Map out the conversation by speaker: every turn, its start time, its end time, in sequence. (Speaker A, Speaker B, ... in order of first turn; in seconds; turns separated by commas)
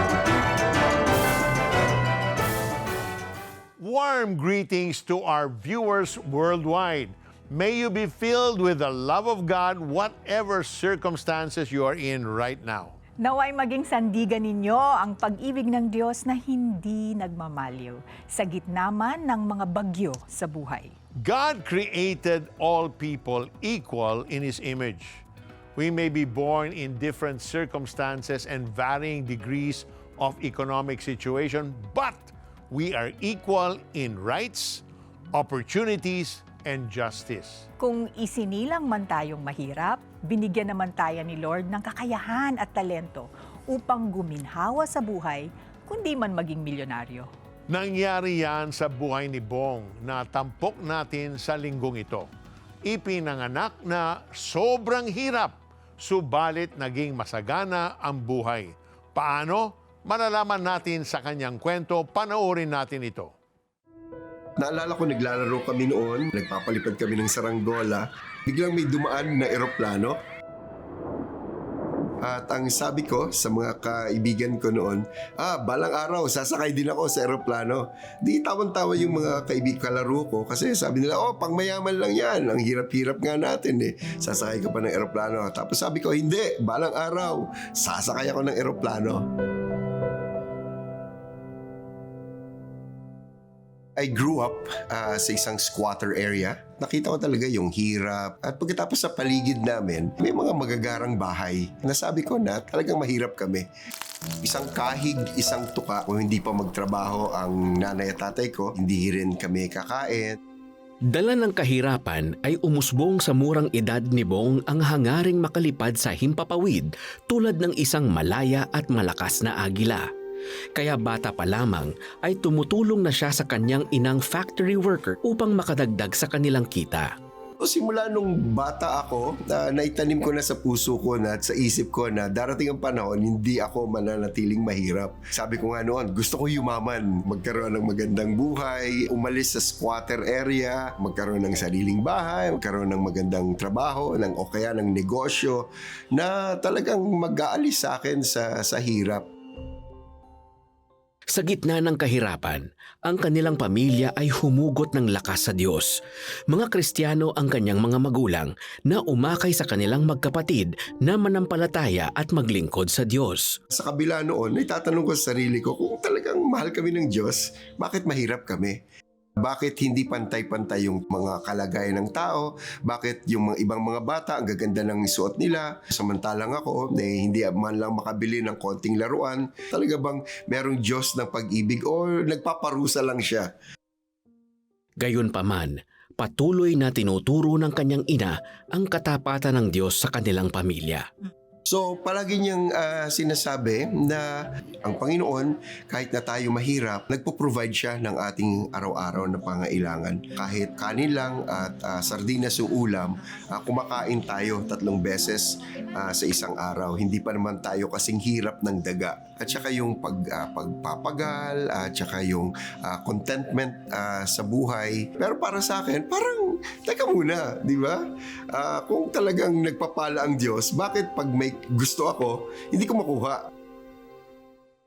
Speaker A: 3.8-13.0, Speaker B: 13.2-20.9, Speaker A: 21.2-25.2, Speaker A: 25.8-37.7, Speaker B: 37.8-47.3, Speaker A: 47.7-52.3, Speaker A: 52.8-63.3, Speaker C: 64.6-70.2, Speaker C: 72.2-89.3, Speaker C: 94.0-103.7, Speaker C: 104.4-110.4, Speaker D: 111.0-120.1, Speaker D: 120.7-127.1, Speaker C: 127.6-149.3, Speaker D: 151.3-163.6, Speaker C: 163.7-168.8, Speaker C: 169.4-183.5, Speaker D: 185.0-191.1, Speaker C: 191.7-223.5